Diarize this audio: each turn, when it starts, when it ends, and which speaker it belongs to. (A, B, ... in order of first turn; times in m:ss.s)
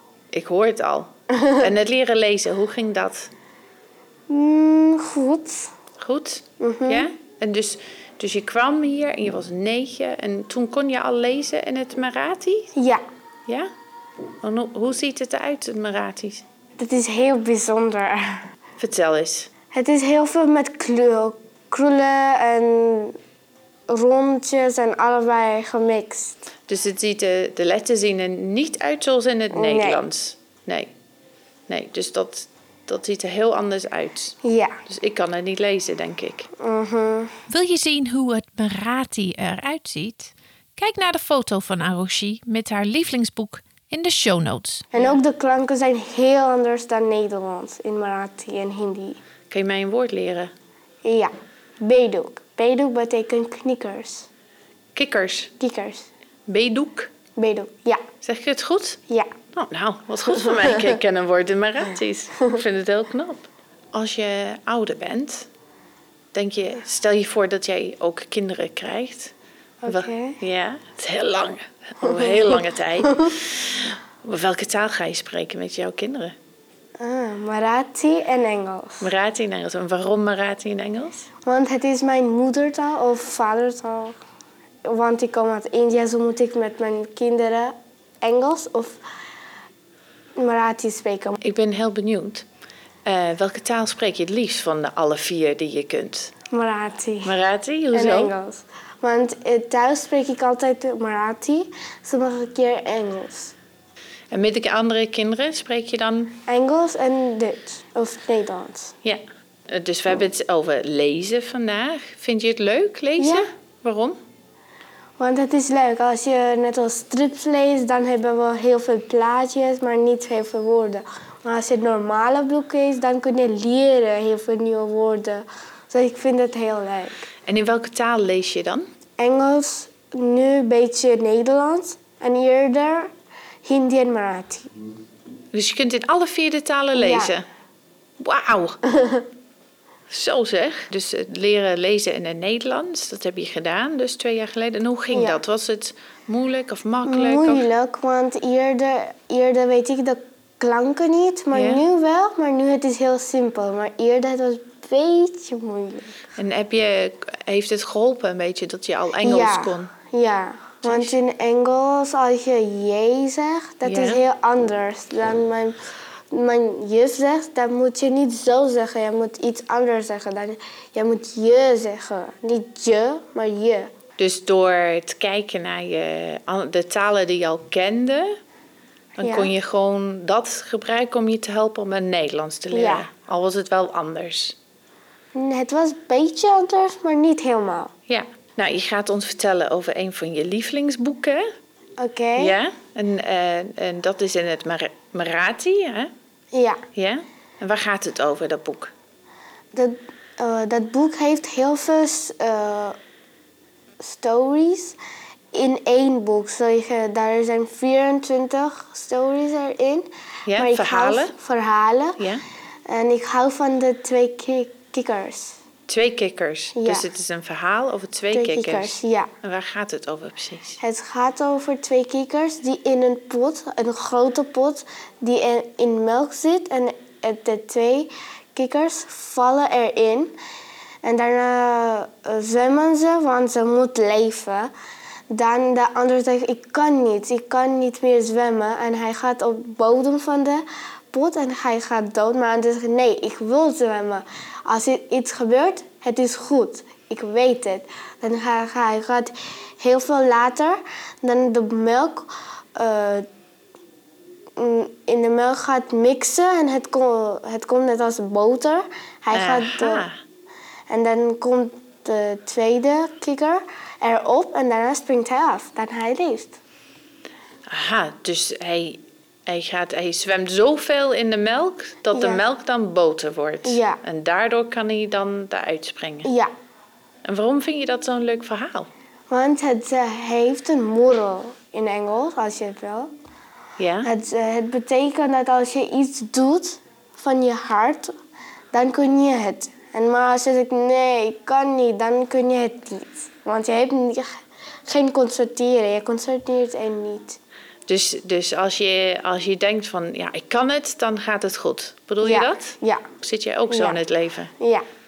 0:00.3-0:03.3 A
0:04.3-0:05.7 B
0:06.0-0:12.7 A
0:06.6-0:07.1 B
0:12.8-0:13.0 B
0:14.4-0:16.4 A
0:16.8-0:18.5 B
0:18.8-0:19.5 A
0:19.7-0:23.2 B
0:23.9-0:26.4 B
0:26.7-0:30.9 A
0:29.5-0:30.0 B
0:31.7-0:36.5 A
0:34.4-0:34.8 B
0:36.6-0:37.3 B
0:37.5-0:45.2 A
0:44.9-0:49.2 B
0:49.5-0:50.5 A
0:51.0-0:54.3 B
0:55.0-0:55.5 A
0:55.6-0:56.1 B
0:56.5-0:57.1 A
0:57.4-0:58.0 B
0:58.2-0:59.0 A
0:59.1-0:59.4 B
0:59.5-1:05.5 A
1:00.6-1:00.9 B
1:06.3-1:09.3 A
1:09.8-1:10.4 B
1:09.9-1:16.4 A
1:17.0-1:19.1 B
1:19.0-1:21.3 A
1:21.4-1:24.2 B
1:24.8-1:29.0 B
1:30.4-1:31.4 B
1:31.4-1:32.4 A
1:33.0-1:36.3 A
1:36.5-1:37.3 B
1:37.2-1:38.3 A
1:37.9-1:43.5 B
1:44.3-1:46.4 A
1:46.5-1:48.9 B
1:49.0-1:54.2 A
1:53.2-1:53.5 B
1:55.2-2:07.3 B
2:07.5-2:08.9 A
2:09.2-2:13.1 B
2:13.6-2:14.7 B
2:15.5-2:17.4 A
2:17.0-2:17.3 B
2:18.2-2:18.8 A
2:20.1-2:27.7 A
2:25.1-2:25.4 B
2:27.0-2:36.2 B
2:31.5-2:31.8 A
2:36.4-2:39.9 A
2:39.2-2:45.8 B
2:40.8-2:41.2 A
2:43.8-2:44.2 A
2:46.3-2:53.9 B
2:54.2-2:58.4 A
2:59.2-3:04.6 A
2:59.2-2:59.5 B
3:02.7-3:03.1 B
3:05.4-3:07.9 B
3:08.1-3:11.5 A
3:12.0-3:12.6 B
3:12.4-3:16.1 A
3:16.5-3:16.8 B
3:17.0-3:18.9 A
3:19.7-3:23.0 B
3:24.0-3:25.0 B
3:25.5-3:32.2 B
3:30.5-3:31.3 A
3:32.9-3:35.6 B
3:35.9-3:40.8 A
3:36.8-3:37.0 B
3:38.3-3:39.3 B
3:40.8-3:50.3 B
3:51.0-3:54.7 B
3:55.3-4:13.3 B
4:14.6-4:20.1 B
4:19.3-4:20.2 A
4:20.9-4:26.6 B
4:27.7-4:36.3 A
4:32.1-4:32.4 B
4:33.6-4:34.0 B
4:36.2-4:36.5 B
4:37.2-4:38.9 A
4:39.3-4:43.1 B
4:43.8-4:44.1 A
4:44.0-4:48.1 B
4:48.7-4:57.4 B
4:57.9-5:04.5 A
5:02.2-5:03.0 B
5:03.7-5:04.0 B
5:04.6-5:04.8 B